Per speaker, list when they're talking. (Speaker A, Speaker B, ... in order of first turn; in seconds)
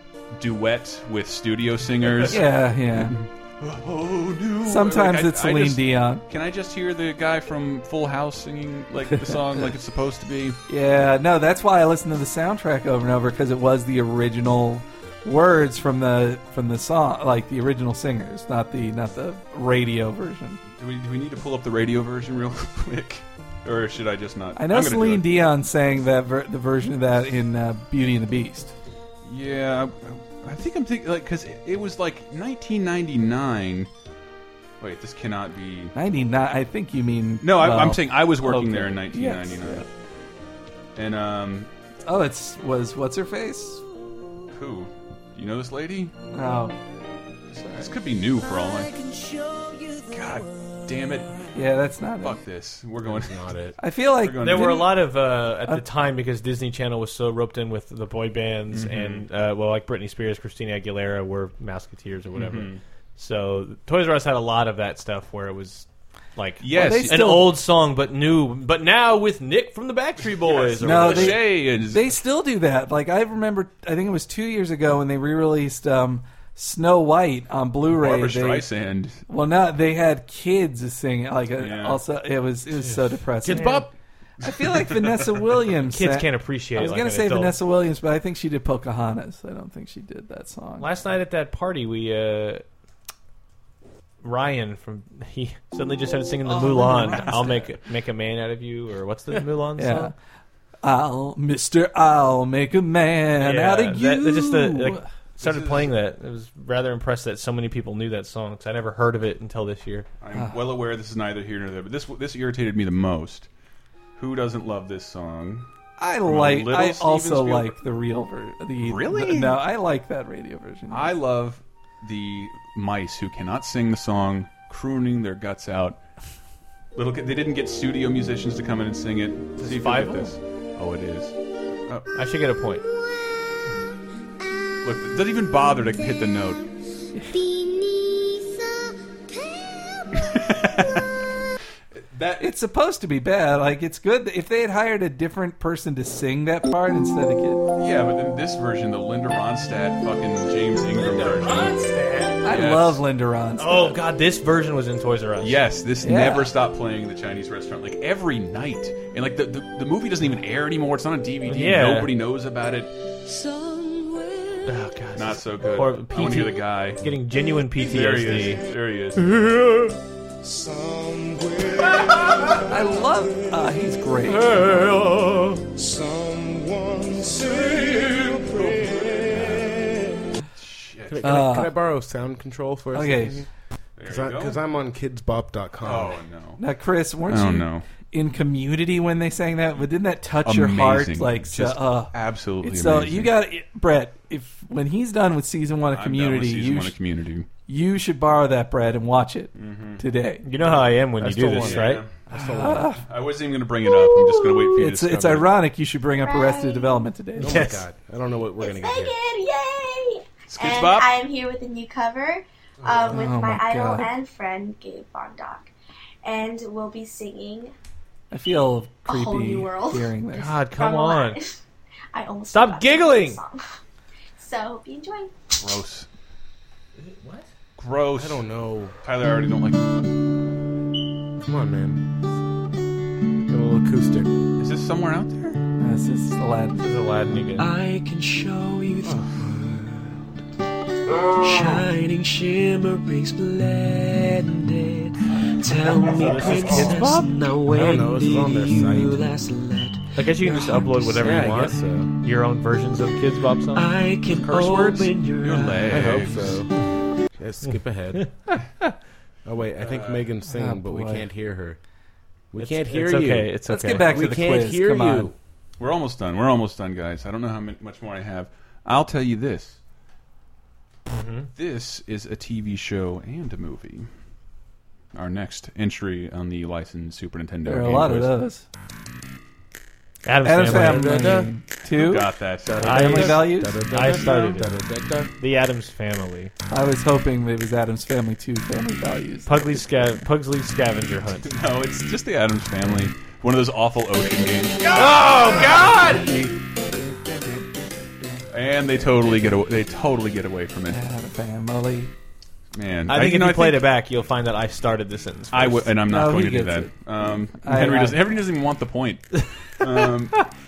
Speaker A: 0.4-10.6, 20.8-25.3, 29.2-33.9, 34.8-35.9, 37.4-39.9, 41.0-41.7, 44.5-46.1, 47.8-49.0, 50.1-51.4, 52.2-53.5, 54.2-54.9, 58.7-59.3, 62.3-62.8, 66.6-67.3, 70.3-72.2, 77.9-79.2, 81.6-82.0, 84.5-85.3, 105.4-105.9, 110.2-113.5, 114.2-115.7, 116.2-117.8, 118.8-119.6, 120.9-126.0, 127.0-131.3, 134.8-136.7, 140.2-141.0, 142.1-142.5, 147.8-151.8, 152.5-153.0, 155.4-162.9, 165.1-167.0, 167.7-169.2, 177.6-179.8, 180.6-181.4, 184.0-184.6, 185.8-186.6, 187.3-187.8, 190.4-193.3, 195.9-197.5, 199.6-200.0, 201.5-202.1, 203.1-205.5, 210.5-211.1, 225.6-226.1, 227.8-228.5, 229.0-229.8, 234.6-235.6, 254.4-256.6, 259.8-260.3, 265.8-269.8, 271.6-274.1, 275.1-278.3, 281.9-284.6, 291.5-296.1, 298.5-301.0, 302.7-303.8, 305.5-309.3, 309.8-310.4
Speaker B: 2.2-3.2, 4.7-6.2, 10.7-20.6, 24.6-28.7, 36.0-39.9, 42.1-43.8, 46.3-46.8, 47.5-47.9, 51.5-52.4, 53.8-55.0, 66.7-67.6, 70.8-78.7, 79.3-83.9, 84.4-90.9, 96.4-97.7, 99.8-100.1, 100.8-105.0, 110.3-110.6, 116.0-121.1, 142.4-147.6, 152.4-154.0, 156.0-156.5, 172.7-174.9, 181.2-181.7, 182.9-183.4, 186.6-197.0, 197.7-200.5, 201.5-201.8, 202.3-203.0, 204.7-207.7, 213.1-214.1, 218.3-220.6, 235.8-236.9, 260.5-261.2, 263.7-265.3, 277.6-278.6, 280.4-283.9, 286.7-290.2, 297.1-297.6, 300.9-302.1, 306.0-306.9, 307.6-308.2
Speaker C: 53.0-53.8, 82.7-83.9, 170.4-172.7, 175.7-180.3, 181.1-183.5, 184.1-186.2, 201.2-202.9, 207.4-209.2, 228.2-228.9, 231.4-232.0, 233.5-234.3, 239.1-239.5, 246.3-246.9, 247.7-249.3, 251.0-252.1, 255.9-256.7, 257.3-258.2, 259.4-261.8, 262.5-265.4, 280.6-281.5, 282.8-285.3
Speaker D: 54.4-71.5, 85.9-87.6, 90.8-92.7, 94.2-100.1, 103.4-110.1, 129.6-130.4, 132.2-132.8, 150.9-152.6, 153.6-155.6, 161.5-162.1, 164.7-168.6, 169.2-170.0, 174.5-175.6, 200.4-202.1, 207.4-207.8, 220.3-221.4, 222.5-223.4, 227.0-227.5, 236.8-237.7, 246.2-247.3, 250.2-253.9, 258.2-258.5, 262.6-264.4, 271.1-271.5, 280.2-281.3, 282.8-284.8, 285.4-286.5, 289.5-291.5, 294.9-296.5, 303.1-306.0, 309.4-310.5
Speaker E: 206.2-207.1, 208.6-215.7, 216.2-217.7, 219.1-221.6, 222.1-223.8, 224.4-225.3
Speaker F: 237.6-240.1, 241.3-250.9, 253.8-256.2